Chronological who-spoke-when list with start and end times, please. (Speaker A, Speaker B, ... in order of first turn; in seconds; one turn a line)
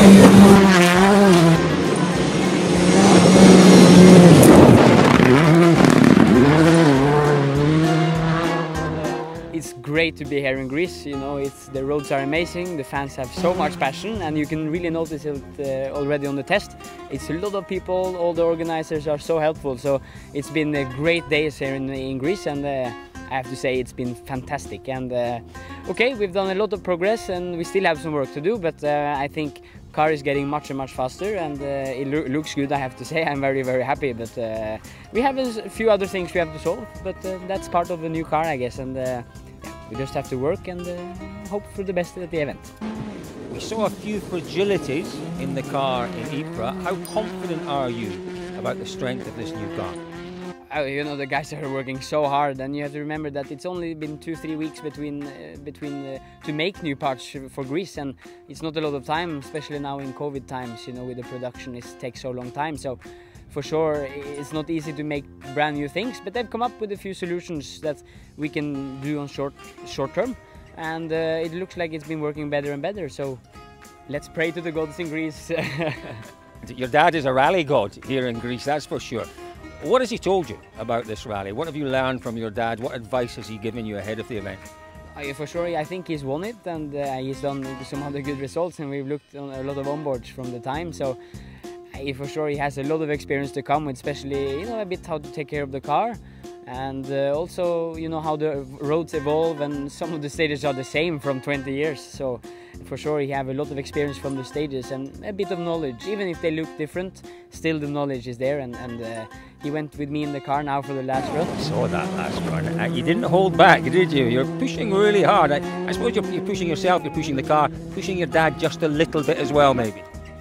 Speaker A: 9.5-42.7
Speaker B: 43.5-50.0
Speaker A: 50.7-73.4
Speaker A: 74.1-76.2
Speaker B: 76.6-79.3
Speaker B: 79.8-84.6
Speaker A: 85.2-91.2
Speaker A: 91.9-111.5
Speaker B: 111.6-120.0